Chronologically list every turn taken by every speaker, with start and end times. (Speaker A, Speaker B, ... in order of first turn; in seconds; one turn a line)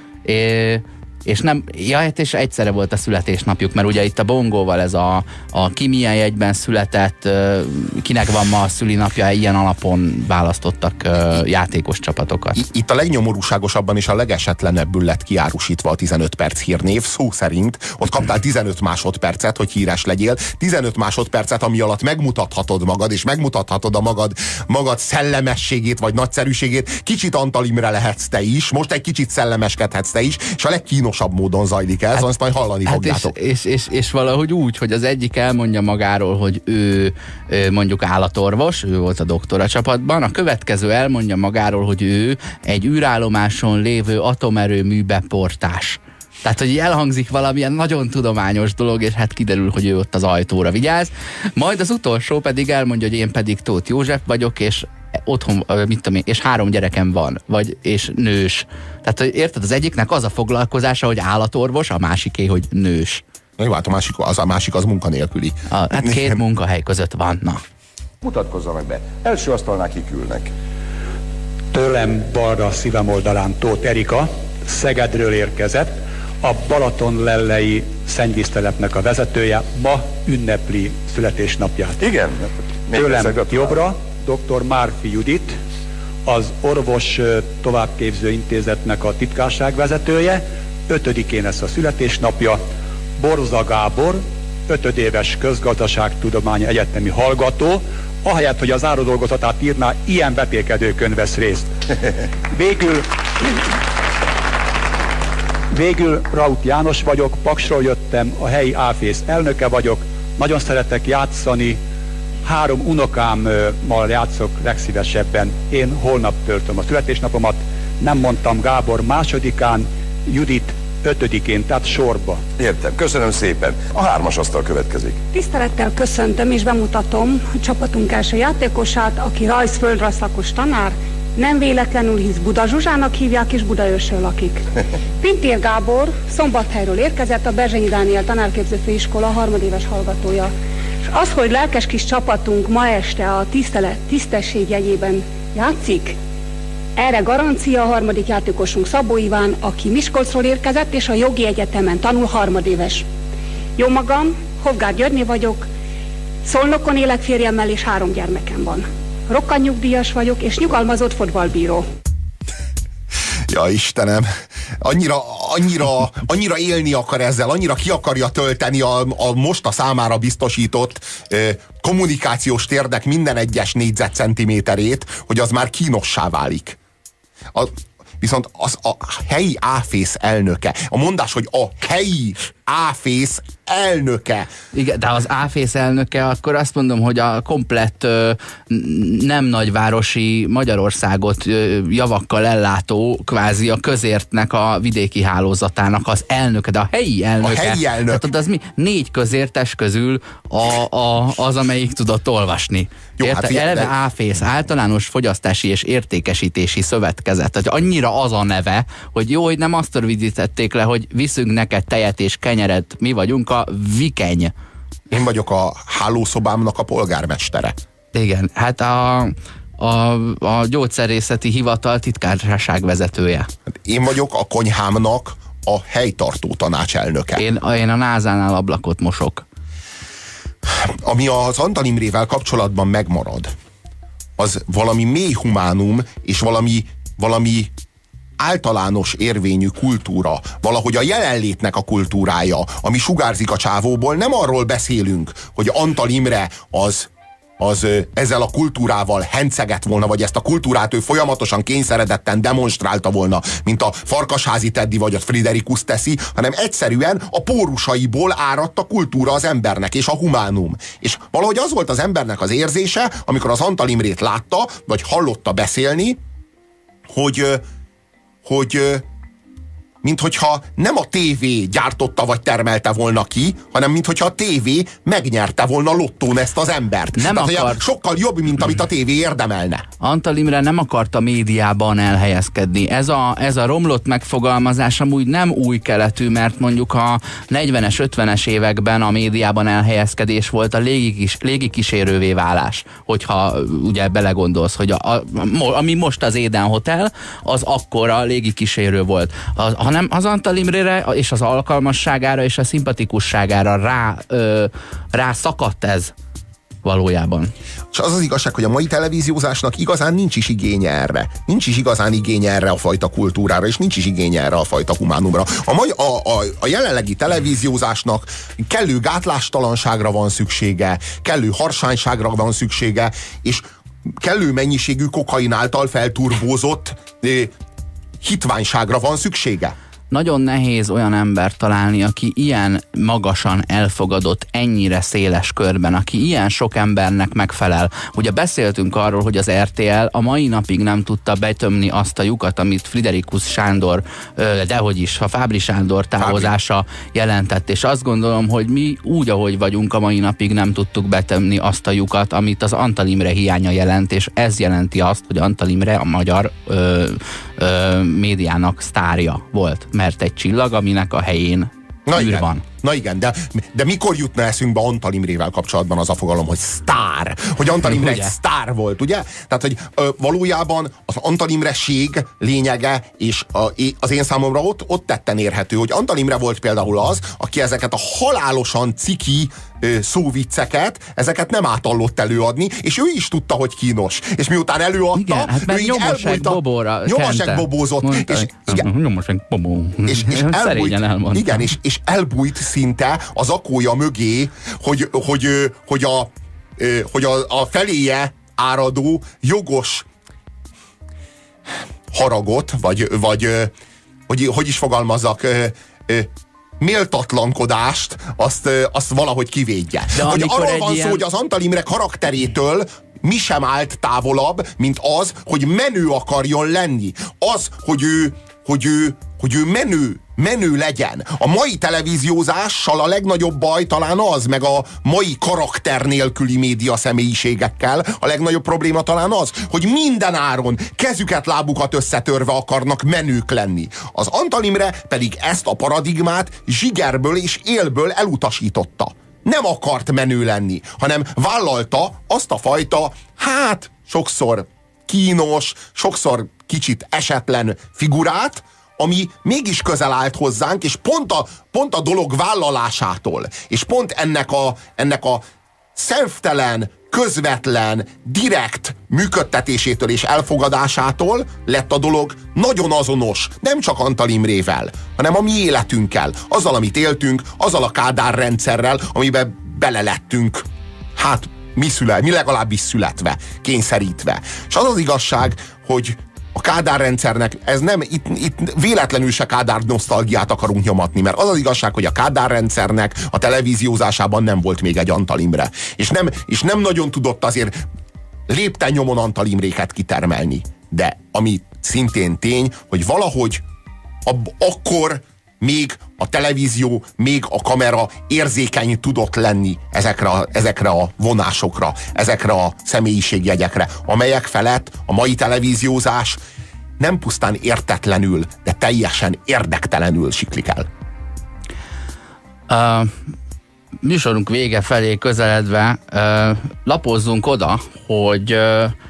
Speaker A: 0.2-12.6
Speaker B: 12.6-33.3
Speaker A: 32.9-63.2
Speaker B: 63.6-66.3
Speaker A: 65.7-67.6
Speaker C: 68.2-70.5
Speaker D: 71.7-82.0
Speaker C: 82.0-83.8
Speaker D: 82.9-85.6
Speaker D: 86.2-92.6
Speaker D: 93.2-101.7
Speaker D: 102.5-103.5
Speaker D: 105.7-111.8
Speaker D: 112.4-122.4
Speaker C: 122.6-125.2
Speaker E: 125.3-134.6
Speaker E: 135.2-140.5
Speaker E: 141.0-146.2
Speaker E: 146.9-153.1
Speaker E: 153.8-155.7
Speaker E: 156.4-161.9
Speaker B: 163.5-164.3
Speaker B: 164.8-176.8
Speaker B: 177.5-184.5
Speaker A: 184.7-214.5
Speaker B: 197.4-198.2
Speaker B: 203.2-203.9
Speaker B: 215.1-217.8
Speaker A: 218.1-223.5
Speaker B: 223.9-227.4
Speaker A: 227.4-229.4
Speaker B: 230.8-233.5
Speaker B: 234.4-237.7
Speaker B: 238.4-266.2
Speaker B: 267.1-267.6
Speaker B: 268.4-269.1
Speaker B: 270.0-279.9
Speaker A: 277.1-277.8
Speaker A: 280.0-306.1
Speaker A: 306.8-307.5
Speaker B: 307.9-323.7
Speaker B: 324.2-327.5
Speaker B: 328.2-329.8
Speaker A: 330.1-362.6
Speaker B: 346.2-346.5
Speaker B: 362.1-388.9
Speaker A: 367.8-368.3
Speaker A: 385.1-391.7
Speaker B: 390.1-400.1
Speaker B: 402.1-403.7
Speaker B: 404.3-455.4
Speaker A: 410.1-411.2
Speaker B: 455.9-470.6
Speaker B: 471.1-487.8
Speaker B: 488.5-493.6
Speaker B: 494.2-506.4
Speaker B: 507.0-510.9
Speaker A: 512.7-513.2
Speaker A: 514.0-518.9